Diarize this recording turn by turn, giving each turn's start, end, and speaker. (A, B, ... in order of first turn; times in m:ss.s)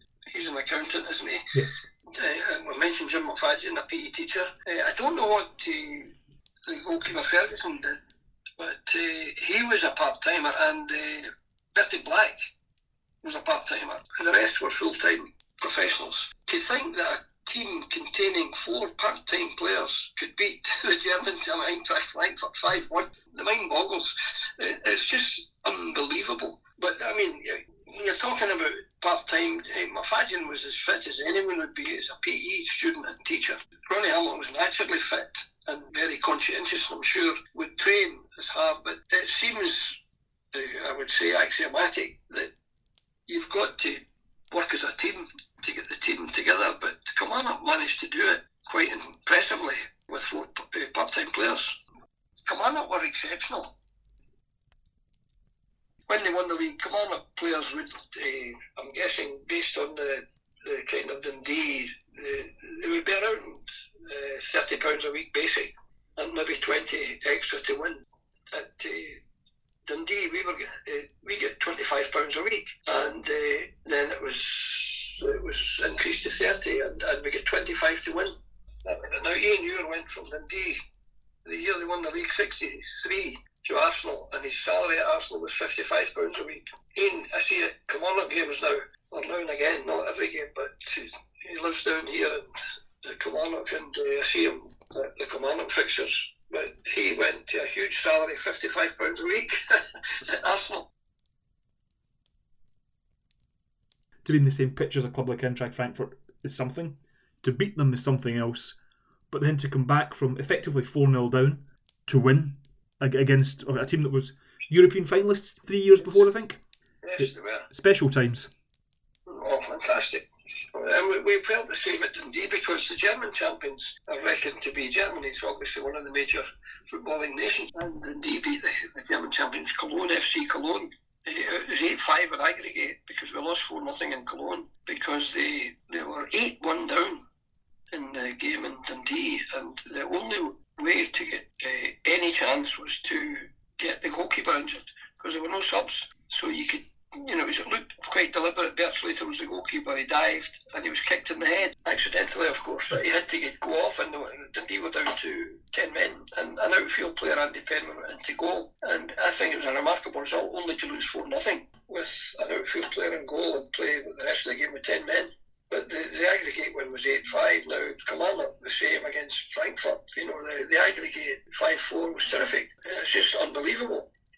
0:00.3-0:01.6 A
0:01.5-0:01.8 B
0:02.1-0:06.1 A
0:06.7-0:08.0 A
0:08.6-0:12.5 A
0:13.2-0:40.0 A
0:40.5-0:42.5 A
0:43.3-0:51.8 A
0:52.5-0:53.8 A
0:56.1-1:09.2 A
1:09.9-1:18.3 A
1:18.8-1:20.8 A
1:21.4-1:40.9 A
1:44.2-1:48.8 B
1:49.3-1:56.6 B
1:57.0-1:57.7 A
1:57.2-1:58.5 B
1:59.3-2:17.2 A
2:17.9-2:54.1 A